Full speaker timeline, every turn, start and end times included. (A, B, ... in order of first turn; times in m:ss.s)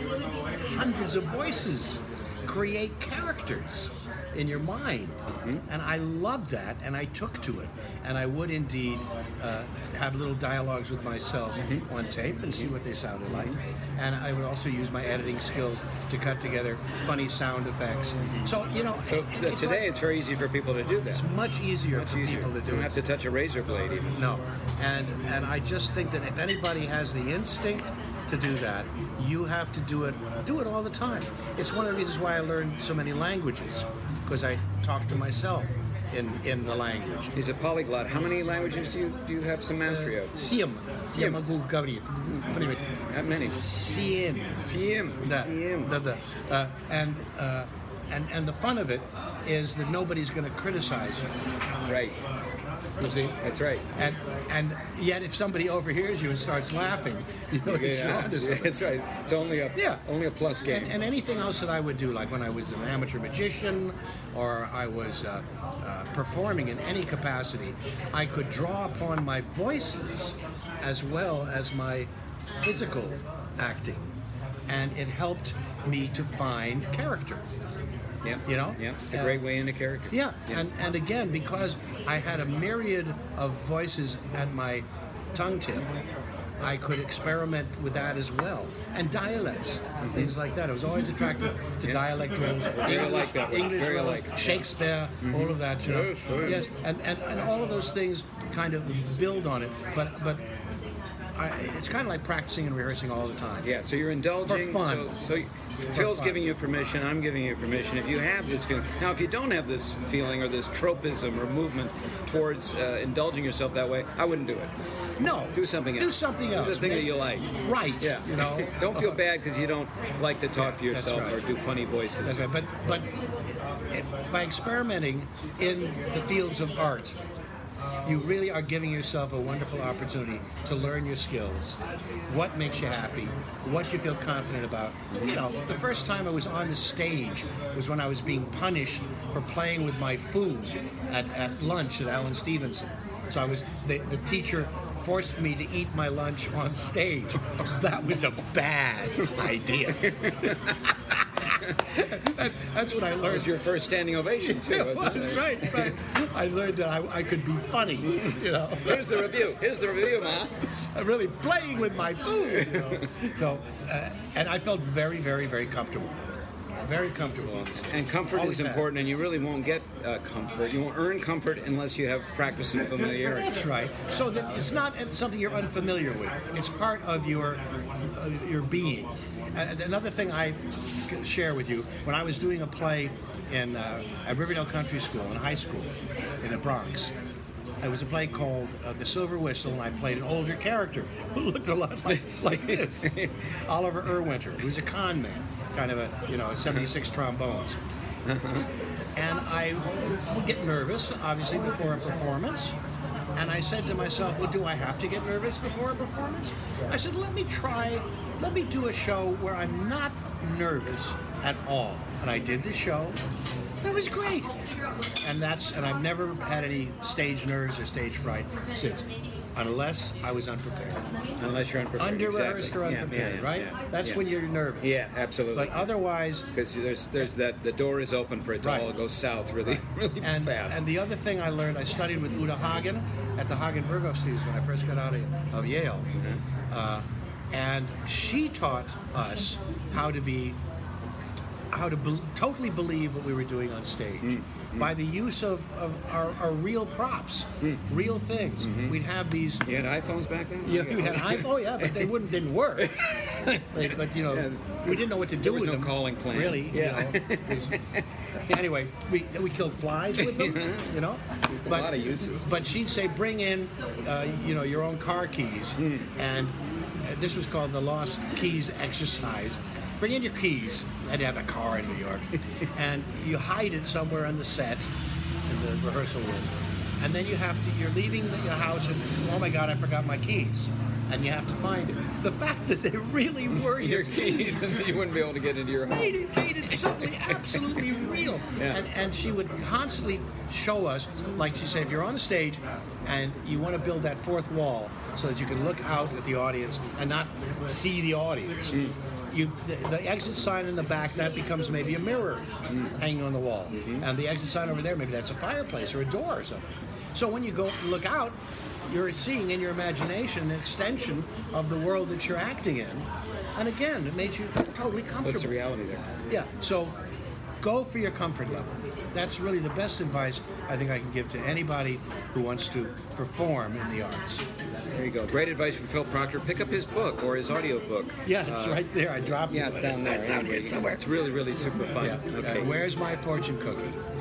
0:00.7-0:05.2 A
0:05.7-0:20.0 A
0:11.6-0:11.9 B
0:13.3-0:13.6 B
0:19.0-0:21.3 B
0:21.1-0:23.0 A
0:21.9-0:24.1 B
0:24.2-0:37.3 A
0:37.4-0:40.3 B
0:39.8-0:42.8 A
0:41.1-0:41.4 B
0:43.1-0:43.6 B
0:43.4-0:44.7 A
0:44.6-0:45.9 B
0:45.2-0:51.3 A
0:51.9-0:52.2 B
0:53.0-0:53.4 A
0:53.4-0:53.9 B
0:54.0-0:58.8 A
0:57.6-1:00.9 B
0:59.8-1:00.0 A
1:00.6-1:12.1 A
1:12.6-1:14.0 A
1:14.7-1:17.4 A
1:18.2-1:20.6 B
1:18.5-1:19.4 A
1:20.1-1:25.9 A
1:26.6-1:40.4 A
1:30.0-1:30.3 B
1:32.8-1:34.7 B
1:35.2-1:36.6 B
1:41.4-1:43.7 A
1:43.6-1:54.7 B
1:44.4-1:45.2 A
1:45.9-1:46.4 A
1:55.2-1:59.2 A
1:55.5-1:57.5 B
1:58.0-2:02.4 B
2:00.6-2:01.4 A
2:02.2-2:03.1 A
2:03.9-2:07.2 A
2:08.0-2:30.5 A
2:15.1-2:15.4 B
2:30.1-2:30.7 B
2:31.9-2:33.5 A
2:33.2-2:35.9 B
2:34.4-2:39.5 A
2:38.1-2:40.5 B
2:41.0-2:46.2 A
2:42.7-2:43.2 B
2:46.8-2:48.9 A
2:47.9-2:53.7 B
2:53.0-3:05.9 A
3:06.4-3:07.1 A
3:07.8-3:13.1 A
3:12.1-3:13.5 B
3:13.7-3:17.8 A
3:18.3-3:18.7 B
3:19.2-3:22.8 A
3:23.4-3:33.2 A
3:33.8-3:34.5 A
3:35.2-3:41.1 A
3:41.4-3:44.2 B
3:42.0-3:45.0 A
3:44.8-3:45.9 B
3:45.5-3:46.5 A
3:46.5-3:50.9 B
3:48.6-3:49.0 A
3:49.7-3:56.1 A
3:56.7-4:00.6 A
4:01.7-4:09.6 A
4:04.2-4:05.0 B
4:08.6-4:09.0 B
4:09.6-4:12.1 B
4:10.6-4:13.0 A
4:12.8-4:18.6 B
4:13.5-4:17.8 A
4:18.5-4:34.9 A
4:20.2-4:20.9 B
4:21.6-4:22.5 B
4:25.8-4:26.1 B
4:35.5-4:45.0 A
4:43.6-4:47.8 B
4:45.9-5:02.4 A
5:02.7-5:03.0 B
5:03.0-5:08.4 A
5:03.7-5:04.0 B
5:08.9-5:15.6 A
5:15.2-5:16.1 B
5:16.3-5:16.9 A
5:17.6-5:24.4 A
5:25.0-5:28.8 B
5:28.3-5:31.0 A
5:29.5-5:32.8 B
5:32.0-5:34.0 A